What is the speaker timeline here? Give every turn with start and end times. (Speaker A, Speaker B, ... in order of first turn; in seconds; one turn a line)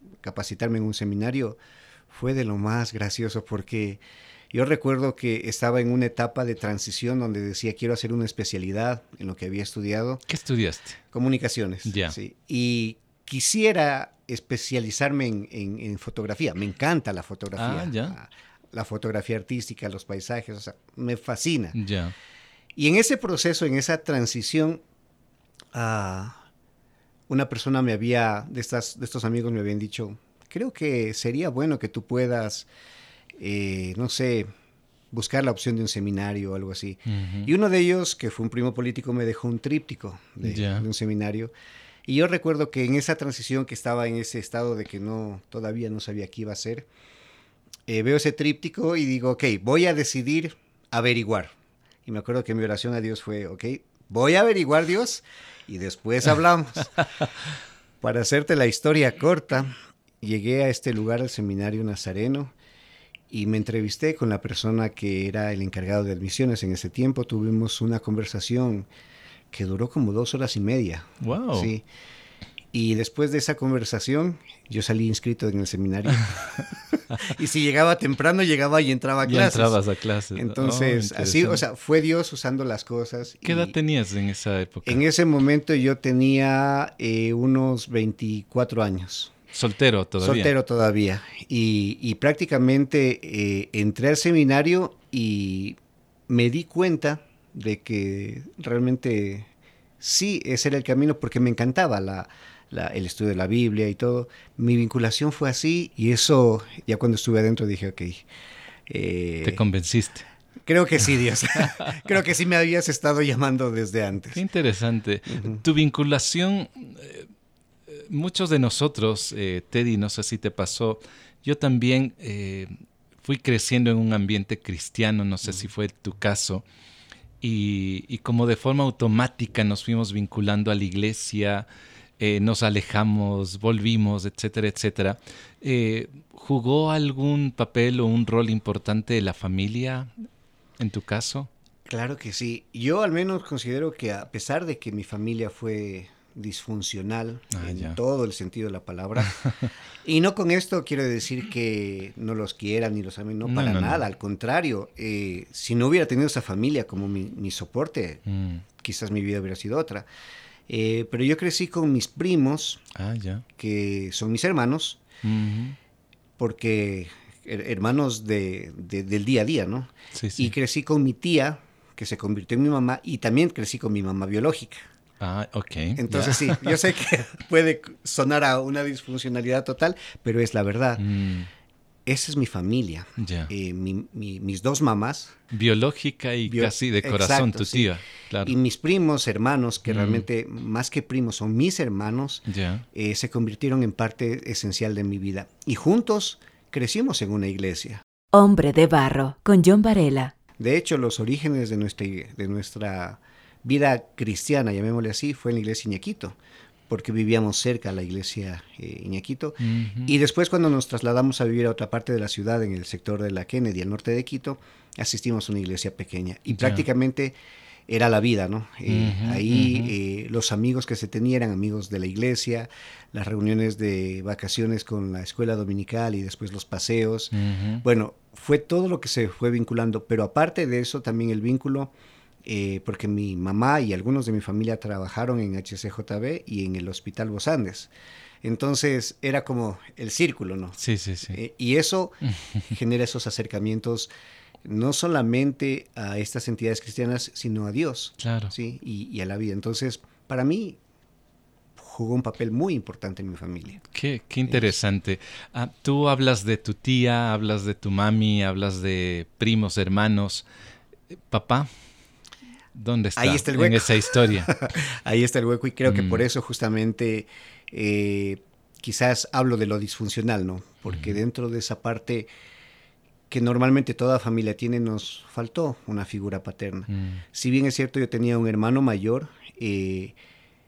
Speaker A: 0.2-1.6
Speaker A: 2.1-4.0
Speaker A: 4.5-10.2
Speaker B: 10.3-11.0
Speaker A: 11.1-21.8
Speaker B: 11.8-12.2
Speaker B: 17.6-18.1
Speaker B: 21.7-22.1
Speaker A: 22.8-24.8
Speaker A: 25.8-26.4
Speaker A: 27.3-32.7
Speaker A: 33.4-34.5
Speaker A: 35.1-41.5
Speaker B: 37.1-37.5
Speaker B: 40.4-40.9
Speaker A: 42.1-46.9
Speaker A: 47.9-51.5
Speaker A: 52.0-57.1
Speaker A: 58.0-62.5
Speaker A: 63.3-68.9
Speaker A: 69.5-71.8
Speaker B: 71.2-71.7
Speaker A: 72.7-79.8
Speaker B: 79.3-81.6
Speaker A: 80.3-83.8
Speaker B: 83.4-85.0
Speaker A: 84.8-89.3
Speaker B: 89.5-90.5
Speaker A: 90.2-95.8
Speaker A: 96.3-99.5
Speaker A: 100.0-108.2
Speaker A: 108.9-109.6
Speaker B: 109.4-110.2
Speaker A: 110.7-114.4
Speaker B: 114.3-117.3
Speaker A: 115.3-115.6
Speaker B: 117.9-126.6
Speaker B: 127.4-131.7
Speaker B: 132.2-140.1
Speaker B: 140.8-141.5
Speaker A: 141.9-149.4
Speaker B: 147.5-148.0
Speaker B: 149.2-149.7
Speaker A: 150.0-158.2
Speaker B: 153.4-154.0
Speaker B: 158.3-158.6
Speaker A: 158.8-160.1
Speaker A: 160.7-162.8
Speaker B: 162.9-163.4
Speaker A: 163.6-165.0
Speaker B: 165.2-165.8
Speaker A: 166.4-174.8
Speaker B: 170.1-170.5
Speaker B: 175.2-176.8
Speaker A: 176.0-181.0
Speaker B: 181.0-181.5
Speaker A: 182.1-185.4
Speaker B: 183.2-183.5
Speaker B: 185.5-188.6
Speaker A: 186.5-187.9
Speaker A: 188.4-198.0
Speaker B: 189.9-190.3
Speaker B: 192.5-192.8
Speaker C: 198.3-200.3
Speaker A: 200.6-206.4
Speaker A: 206.9-217.3
Speaker B: 209.6-210.1
Speaker B: 216.5-216.9
Speaker A: 217.9-231.9
Speaker B: 218.9-219.9
Speaker B: 227.3-227.8
Speaker A: 232.4-237.9
Speaker A: 238.4-244.1
Speaker B: 240.8-241.4
Speaker A: 244.7-250.8
Speaker B: 248.2-248.5
Speaker A: 251.8-253.8
Speaker B: 253.9-260.4
Speaker A: 254.5-254.7
Speaker B: 261.1-261.7
Speaker B: 262.8-264.6
Speaker A: 263.2-272.3
Speaker B: 265.9-266.2
Speaker B: 270.9-271.2
Speaker A: 273.3-280.1
Speaker B: 276.9-277.2